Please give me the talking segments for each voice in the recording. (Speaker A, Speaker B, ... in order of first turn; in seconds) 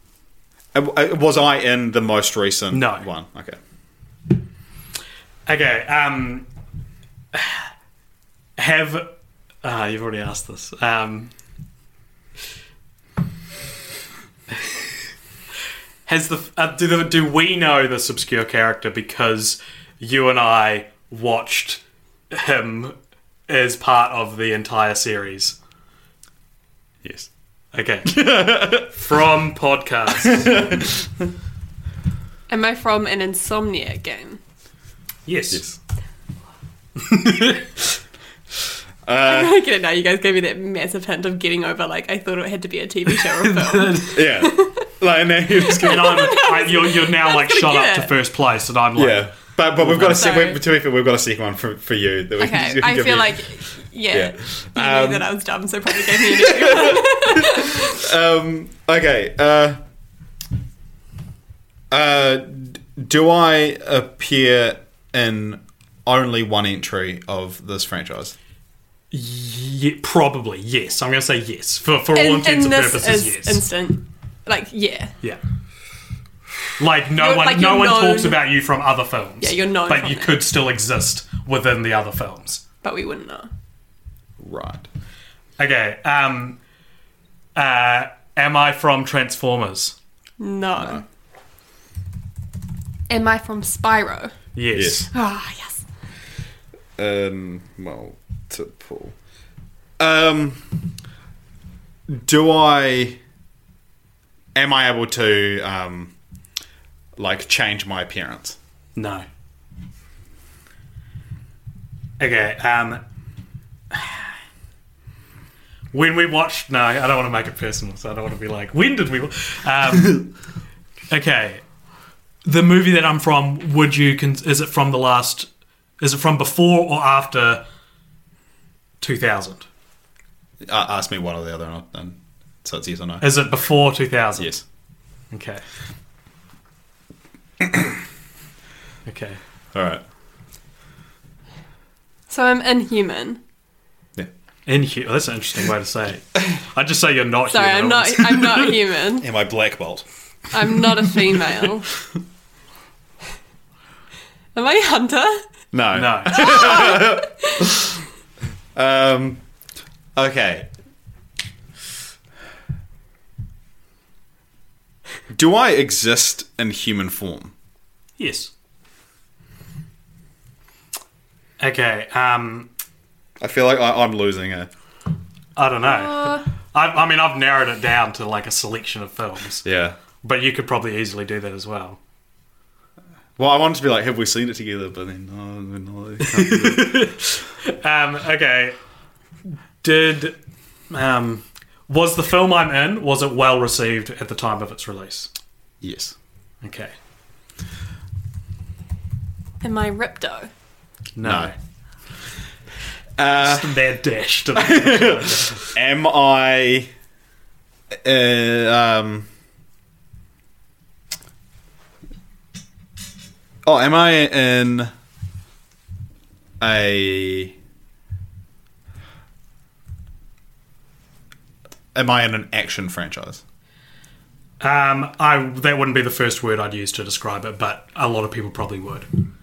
Speaker A: 0.7-3.6, 27.0-27.3, 28.1-28.9, 30.2-31.1, 35.5-35.8, 39.0-39.6, 44.1-46.4, 49.0-53.5, 54.1-55.3, 56.0-59.8, 61.9-68.3, 84.4-84.9, 94.7-95.1, 97.0-99.1, 100.0-100.7, 102.1-103.2, 104.5-106.1, 107.2-108.6, 130.6-133.2, 134.4-134.6, 139.7-140.0, 149.2-150.1, 155.7-157.9, 158.7-159.4, 160.2-160.7, 165.3-167.5, 173.4-174.7, 179.6-180.0, 183.4-187.1, 195.8-196.1, 201.2-201.5, 203.2-203.8, 204.5-206.9, 207.9-209.3, 213.6-214.9, 216.6-217.5, 221.9-223.4
Speaker B: 2.7-3.1, 5.5-6.5, 7.3-7.7, 8.6-9.1, 9.6-11.3, 16.1-22.9, 23.5-25.6, 27.7-30.6, 35.2-35.6, 37.0-37.7, 43.4-44.2, 45.8-49.3, 49.8-50.1, 69.1-73.6, 76.8-82.6, 85.6-86.6, 87.5-90.0, 94.5-95.1, 108.9-109.2, 112.2-113.0, 113.9-114.2, 115.9-120.3, 121.1-121.6, 122.4-125.5, 126.0-127.6, 129.0-129.7, 133.2-134.5, 135.3-135.6, 139.1-139.4, 144.7-148.7, 155.9-156.6, 168.2-168.5, 171.6-172.7, 175.6-179.6, 180.2-182.0, 186.2-188.8, 189.8-190.4, 190.9-195.3, 196.6-196.9, 201.2-201.5, 203.3-205.7, 224.6-229.1
Speaker C: 32.5-34.4, 39.2-44.9, 45.6-48.1, 49.9-50.6, 52.4-58.0, 72.1-75.1, 77.2-78.4, 79.4-80.5, 82.8-83.5, 90.4-91.0, 93.1-94.3, 95.1-95.8, 142.3-143.4, 147.5-149.3, 150.5-151.9, 154.5-155.4, 156.3-157.8, 175.8-176.4, 199.6-200.5